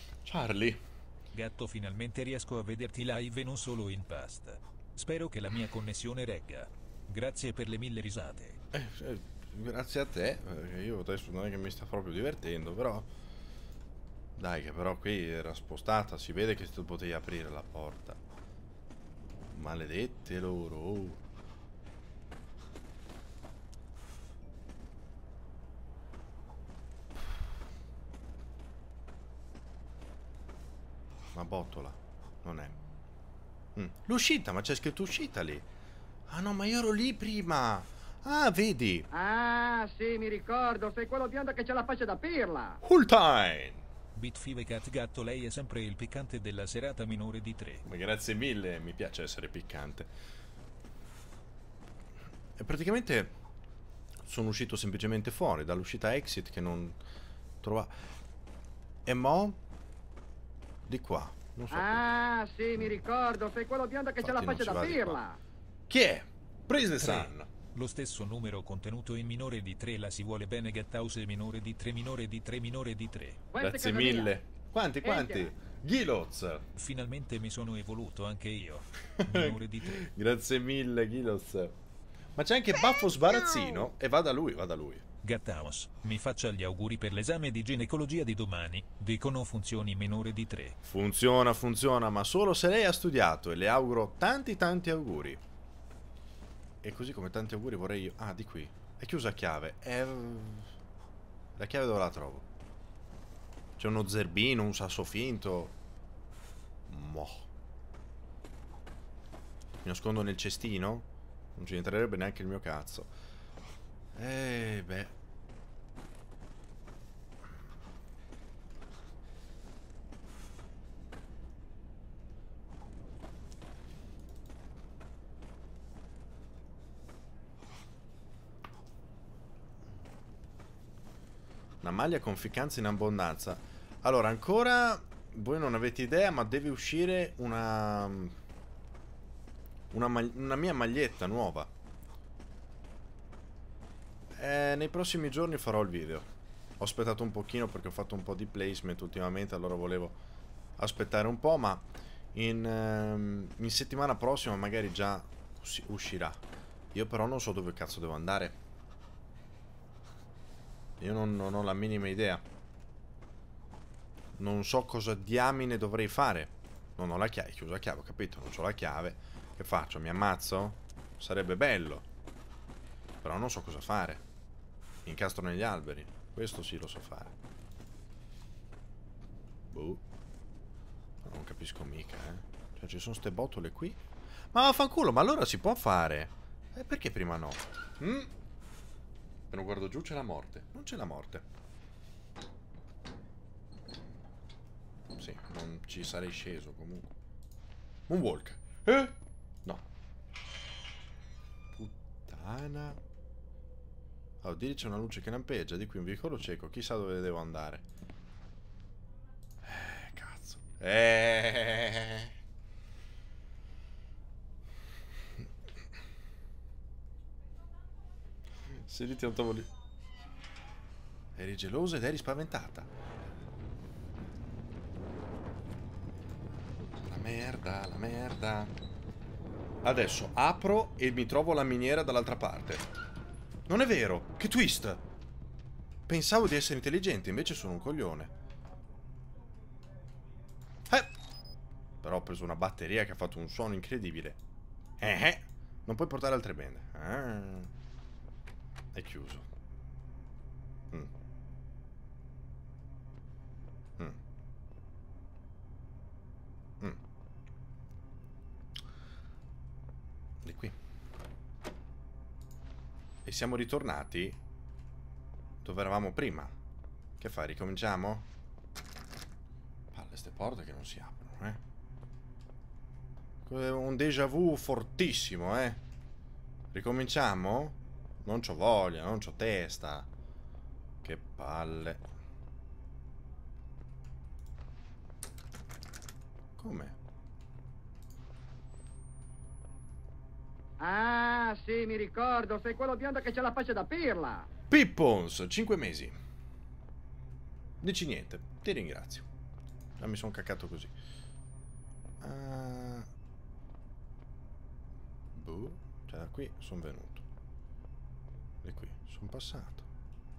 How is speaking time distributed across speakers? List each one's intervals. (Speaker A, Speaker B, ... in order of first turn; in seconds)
Speaker A: 0.2-0.8, 8.7-13.1, 14.4-18.2, 19.5-21.2, 31.3-32.8, 33.8-35.6, 36.3-39.1, 42.8-43.8, 47.8-50.1, 52.6-53.3, 54.2-57.0, 57.6-58.0, 59.0-59.6, 60.9-62.1, 64.2-65.2, 65.9-67.5, 73.6-76.6, 79.2-81.7, 82.3-85.0, 90.8-95.4, 96.8-100.7, 101.6-102.4, 103.8-105.7, 106.9-107.5, 109.8-113.1, 114.2-115.1, 131.8-138.3, 139.9-141.7, 144.4-146.3, 146.8-150.2, 150.8-156.4, 156.9-158.6, 161.0-162.4, 164.4-172.1, 173.2-174.2, 175.0-177.3, 179.7-180.0, 181.2-184.0, 184.5-188.3, 189.5-191.4, 195.2-197.1, 198.1-199.8, 201.7-203.0, 204.4-207.8, 209.6-212.3, 218.8-219.7, 221.3-222.9, 227.0-228.7, 229.8-232.8, 233.7-235.0, 236.1-238.3, 242.0-244.4, 245.0-247.7, 248.9-249.5, 260.4-260.8, 263.2-264.4, 265.6-266.5, 267.2-268.3, 269.9-271.6, 273.4-275.8, 276.7-280.1, 281.0-282.0, 286.6-286.9, 294.7-296.2, 297.8-299.2, 300.0-300.9, 302.2-303.1, 305.3-307.2, 308.6-309.9
Speaker B: 1.3-8.6, 44.1-47.8, 67.0-73.4, 76.8-80.1, 85.2-90.8
Speaker C: 39.1-42.8, 61.7-65.4, 73.5-74.3, 75.0-75.5, 290.8-294.5